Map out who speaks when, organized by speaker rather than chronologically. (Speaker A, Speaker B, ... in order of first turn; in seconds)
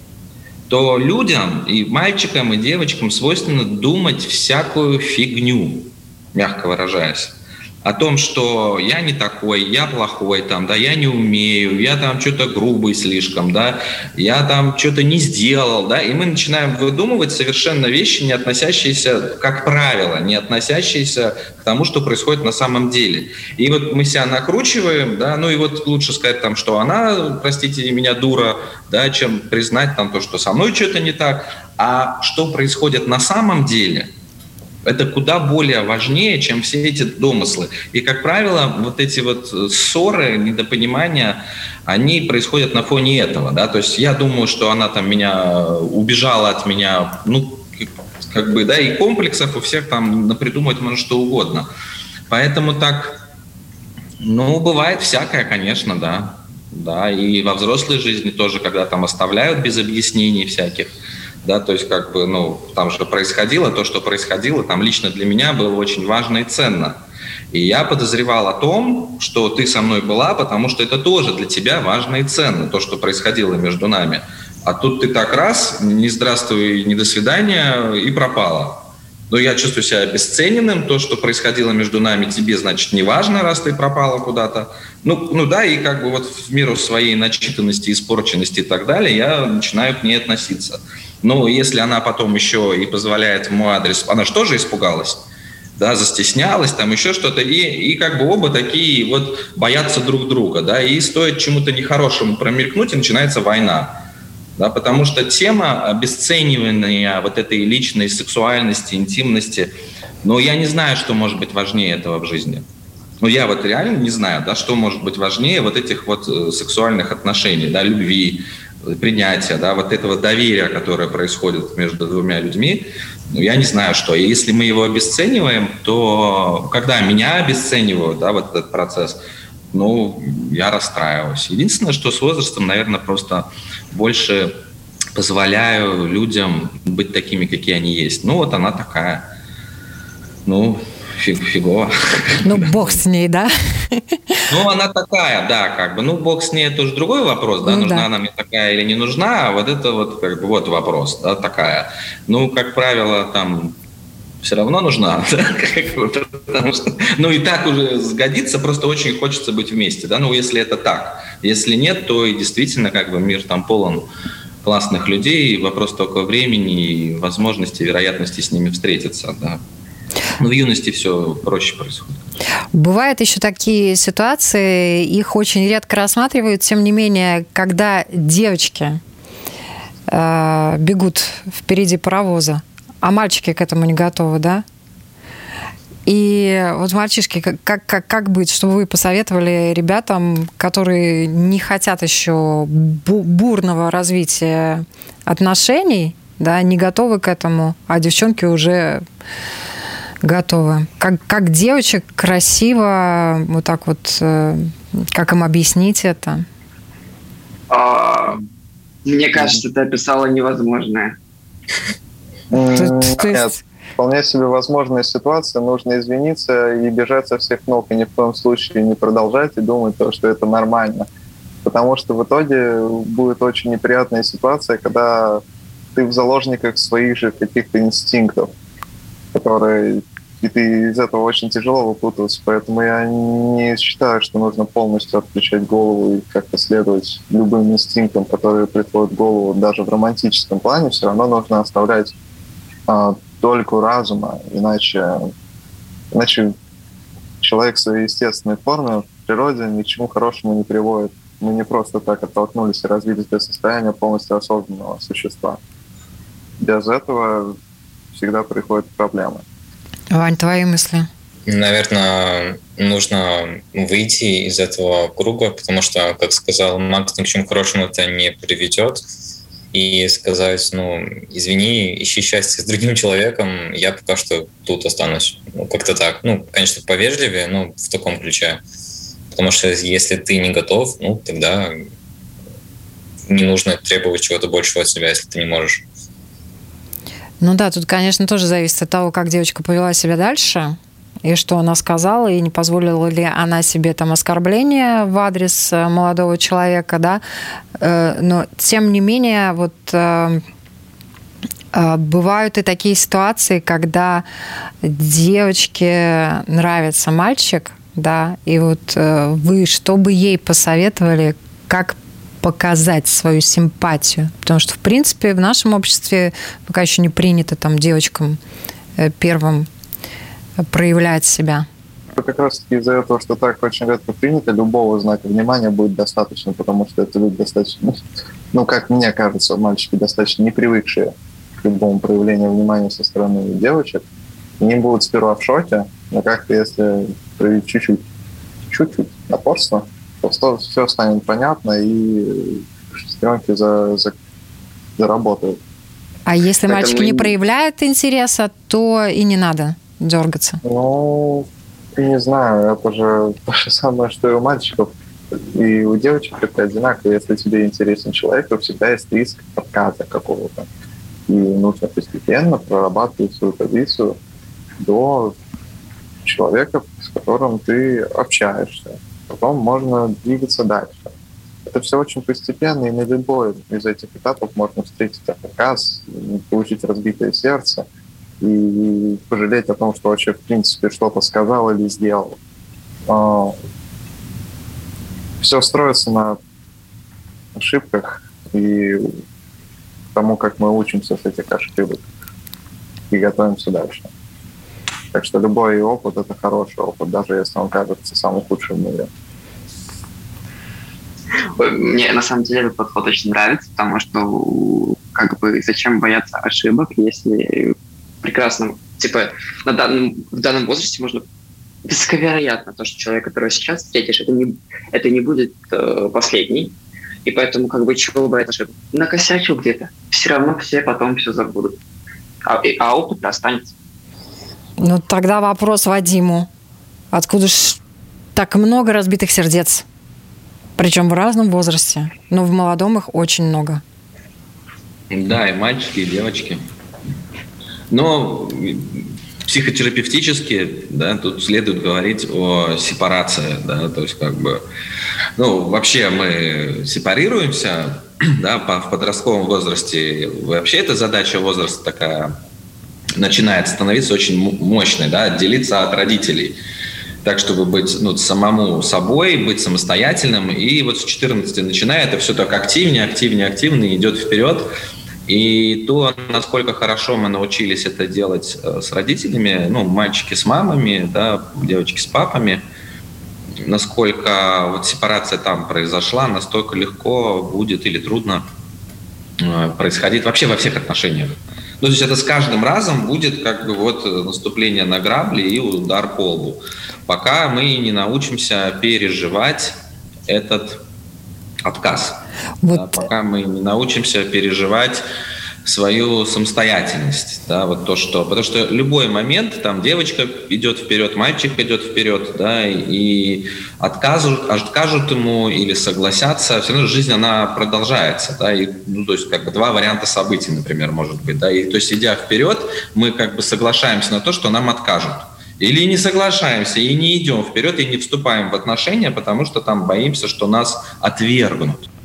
Speaker A: 0.7-34.1, 34.9-51.7, 52.3-53.2, 54.2-60.9, 61.4-67.0, 67.5-104.0, 104.6-109.7, 110.2-112.7, 113.2-129.2, 129.7-134.6, 135.2-139.3, 140.5-143.0, 144.5-153.8, 154.4-164.1, 164.6-169.6, 170.4-172.3, 435.1-436.6, 437.9-444.6, 445.4-452.4, 453.2-456.6, 457.2-464.7, 465.3-472.6, 473.6-478.5, 479.4-490.8, 491.6-492.2, 492.7-495.0, 495.6-521.9
Speaker B: 142.4-144.4, 147.7-148.1, 172.7-179.0, 180.1-184.7, 186.1-199.0, 200.2-206.4, 212.8-213.6, 260.1-261.1, 287.4-297.2, 297.8-300.4, 301.7-304.2, 304.8-318.4, 319.0-319.7, 320.6-321.7, 346.3-350.6, 424.8-426.5, 427.1-427.8, 428.4-429.9, 430.8-433.8, 492.6-493.0
Speaker C: 207.7-208.4, 209.1-211.2, 346.7-347.4, 401.6-411.2, 411.9-421.8, 422.5-423.7
Speaker D: 212.5-221.1, 221.6-225.4, 225.9-228.5, 229.3-242.1, 242.9-245.3, 246.1-246.6, 247.4-255.6, 256.6-257.6, 258.1-259.4, 322.1-328.0, 328.5-334.0, 334.6-338.0, 338.7-344.1, 345.0-345.6, 350.6-354.9, 355.5-360.7, 361.3-364.2, 364.8-365.4, 366.2-371.1, 371.7-377.9, 378.4-382.4, 383.1-383.6, 385.4-386.4, 387.6-389.2, 390.1-392.0, 393.1-394.1, 395.1-399.1
Speaker E: 261.5-269.0, 269.7-278.6, 279.3-281.9, 283.3-285.9